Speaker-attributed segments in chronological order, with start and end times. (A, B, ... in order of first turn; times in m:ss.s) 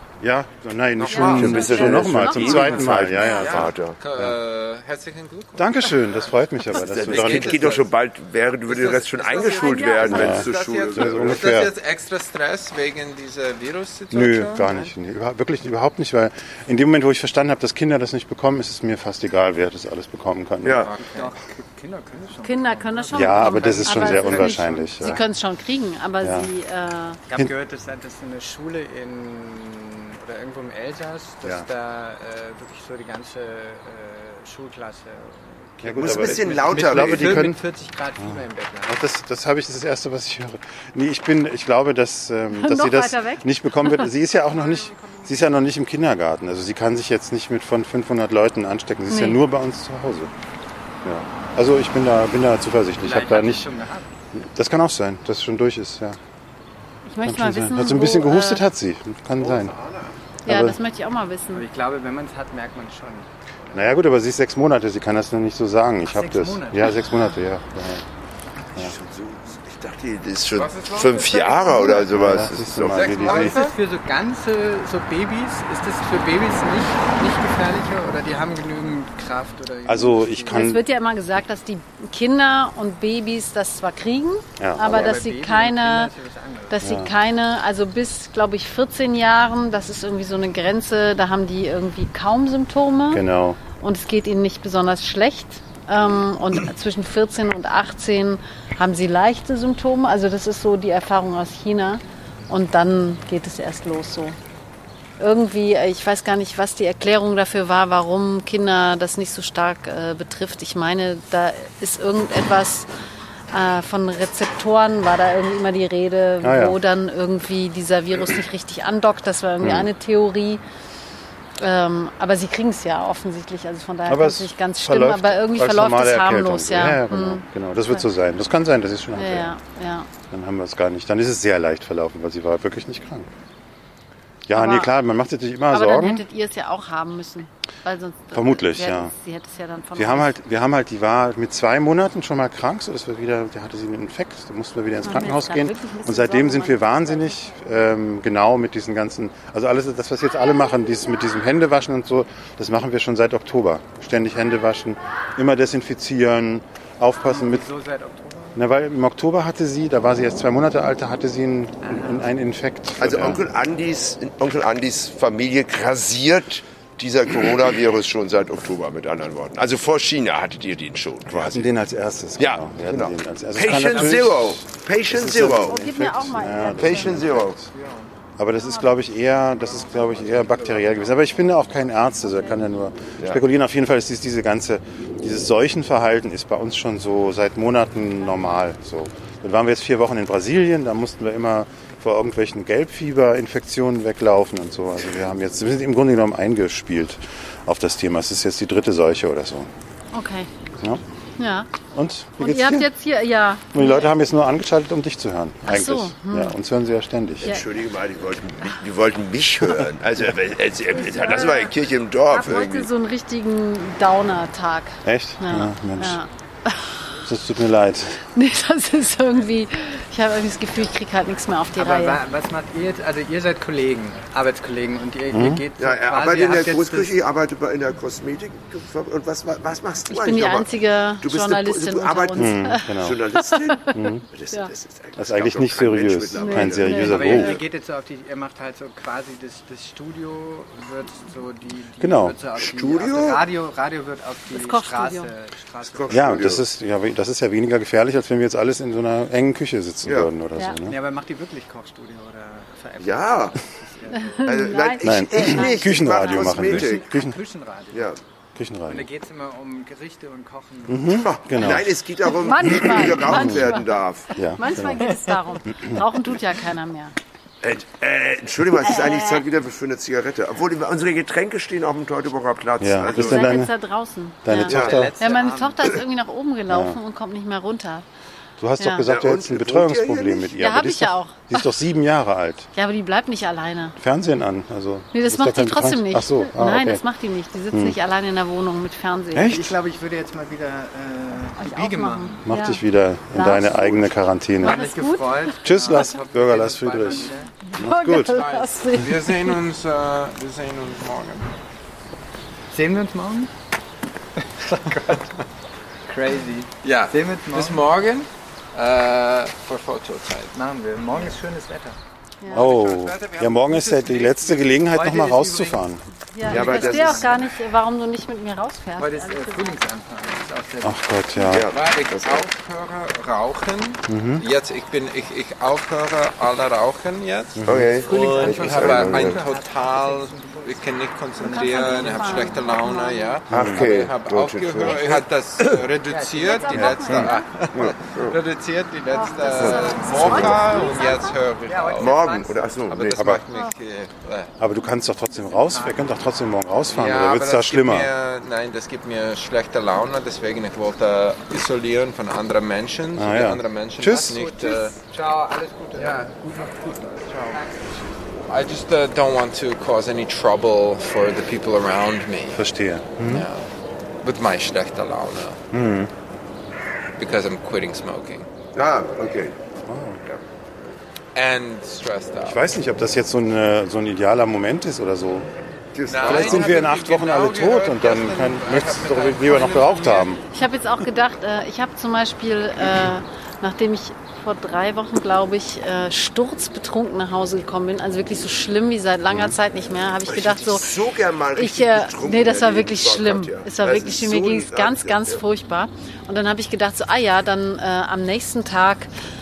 0:00.2-0:04.4 A
0:01.0-0:01.6 B
0:01.1-0:03.5 C
0:01.1-0:04.0 D
0:03.3-0:06.0 B
0:05.6-0:07.8 A
0:06.7-0:11.6 D
0:06.8-0:07.9 B
0:08.7-0:14.9 B
0:09.6-0:10.1 C
0:10.1-0:11.7 A
0:14.1-0:20.8 A
0:20.6-0:20.9 D
0:20.8-0:21.3 B
0:21.0-0:25.3 E
0:22.4-0:27.2 C
0:23.1-0:25.2 A
0:26.2-0:26.5 A
0:27.3-0:39.0 E
0:35.8-0:37.6 A
0:35.9-0:37.5 D
0:38.9-0:50.3 A
0:42.5-0:44.1 C
0:44.9-0:45.2 E
0:49.1-0:49.4 C
0:51.0-0:53.7 A
0:53.0-0:54.1 E
0:54.3-0:56.2 A
0:57.1-0:58.6 C
0:57.2-0:59.7 A
1:00.5-1:00.8 A
1:00.5-1:01.7 C
1:01.5-1:03.8 E
1:03.7-1:08.0 A
1:06.1-1:07.2 E
1:08.8-1:13.1 D
1:10.5-1:13.8 B
1:12.1-1:13.6 A
1:13.2-1:20.8 E
1:19.9-1:20.8 A
1:20.5-1:26.1 C
1:24.6-1:25.1 A
1:24.8-1:27.0 E
1:26.7-1:44.4 C
1:26.8-1:27.1 A
1:33.1-1:33.6 A
1:45.2-1:52.9 C
1:53.5-2:00.6 C
1:56.4-1:56.8 A
1:59.6-1:59.9 A
2:01.6-2:08.1 C
2:04.1-2:09.5 A
2:09.2-2:10.1 C
2:10.3-2:13.3 A
2:14.5-2:16.2 A
2:14.5-2:14.9 C
2:15.7-2:20.3 C
2:18.3-2:19.1 A
2:20.0-2:37.6 A
2:25.0-2:27.2 C
2:37.2-2:38.6 E
2:38.6-2:43.4 A
2:41.8-2:42.3 E
2:43.0-2:51.7 D
2:51.3-2:57.6 A
2:52.4-2:55.8 D
2:55.2-2:57.3 C
2:56.8-2:57.6 D
2:57.6-2:58.1 E
2:58.4-3:19.7 A
2:59.5-3:02.6 E
3:20.1-3:20.5 C
3:21.4-3:21.7 C
3:21.9-3:22.9 A
3:22.4-3:24.1 C
3:23.7-3:27.5 A
3:25.7-3:26.6 C
3:27.4-3:32.9 D
3:30.9-3:31.7 C
3:32.3-3:37.0 C
3:35.0-3:36.2 A
3:37.3-3:38.2 A
3:38.3-3:42.2 C
3:41.8-3:47.2 E
3:45.3-3:45.6 A
3:45.8-3:57.4 D
3:50.1-3:54.0 C
3:52.4-3:53.2 A
3:53.9-3:54.2 A
3:55.2-3:57.6 A
3:56.4-3:57.6 C
3:57.0-4:06.6 E
4:02.0-4:02.4 A
4:02.6-4:03.4 D
4:04.5-4:05.3 C
4:05.9-4:06.6 D
4:06.1-4:11.0 A
4:10.0-4:10.3 D
4:10.8-4:14.7 E
4:13.0-4:13.6 D
4:14.1-4:16.4 C
4:14.4-4:17.1 D
4:15.0-4:17.4 A
4:16.4-4:18.2 E
4:17.9-4:18.2 D
4:18.6-4:19.1 A
4:18.9-4:21.2 E
4:20.9-4:22.0 A
4:21.2-4:24.3 D
4:22.2-4:24.0 C
4:23.2-4:23.7 A
4:24.4-4:25.1 A
4:24.6-4:27.2 C
4:25.7-4:26.0 A
4:27.6-4:33.7 D
4:28.8-4:29.4 C
4:32.8-4:33.7 A
4:33.0-4:38.0 C
4:34.4-4:35.2 A
4:34.7-4:35.0 D
4:34.7-4:36.0 E
4:36.7-4:37.0 A
4:38.6-4:42.7 A
4:38.8-4:39.1 C
4:39.0-4:40.6 D
4:40.6-4:41.6 C
4:42.8-4:44.0 C
4:44.0-4:47.0 A
4:45.1-4:49.6 C
4:49.3-4:49.7 A
4:49.5-4:52.4 E
4:51.6-4:52.8 C
4:52.4-4:54.8 A
4:53.3-4:54.0 C
4:54.6-4:56.1 C
4:54.6-4:57.5 E
4:55.6-4:58.4 A
4:57.7-4:59.6 C
4:58.3-5:01.5 B
5:02.7-5:03.5 E
5:04.4-5:05.3 E
5:06.1-5:07.9 E
5:06.8-5:10.5 B
5:10.5-5:12.0 E
5:12.4-5:12.7 C
5:12.5-5:13.9 B
5:12.5-5:16.0 A
5:12.6-5:15.9 E
5:16.3-5:19.8 C
5:16.5-5:17.5 D
5:16.5-5:17.2 E
5:19.0-5:21.4 E
5:20.8-5:21.7 A
5:21.5-5:22.5 D
5:21.7-5:42.3 B
5:24.1-5:24.4 A
5:27.6-5:27.9 A
5:27.7-5:29.4 D
5:28.0-5:32.7 E
5:31.4-5:33.4 C
5:33.5-5:33.8 A
5:33.5-5:35.8 D
5:36.0-5:37.3 E
5:36.4-5:37.5 C
5:36.8-5:37.3 A
5:37.7-5:38.4 D
5:39.1-5:41.4 C
5:39.3-5:39.6 E
5:39.6-5:40.6 D
5:41.6-5:42.8 E
5:42.0-5:43.3 D
5:42.9-5:44.5 B
5:43.2-5:43.4 A
5:44.6-5:48.1 A
5:45.3-5:46.3 E
5:46.9-5:55.0 B
5:53.2-5:54.4 A
5:54.3-5:56.9 E
5:56.0-5:57.7 B
5:57.5-5:58.0 E
5:58.5-6:02.6 B
6:02.5-6:03.5 A
6:03.3-6:03.7 B
6:04.2-6:05.6 B
6:05.7-6:06.1 A
6:07.2-6:08.5 B
6:08.8-6:09.6 D
6:09.9-6:10.2 A
6:11.4-6:12.7 B
6:12.4-6:15.5 A
6:15.9-6:16.9 D
6:16.1-6:20.4 B
6:16.2-6:20.4 A
6:20.5-6:30.9 C
6:29.3-6:29.6 A
6:30.3-6:35.4 D
6:31.6-6:39.1 C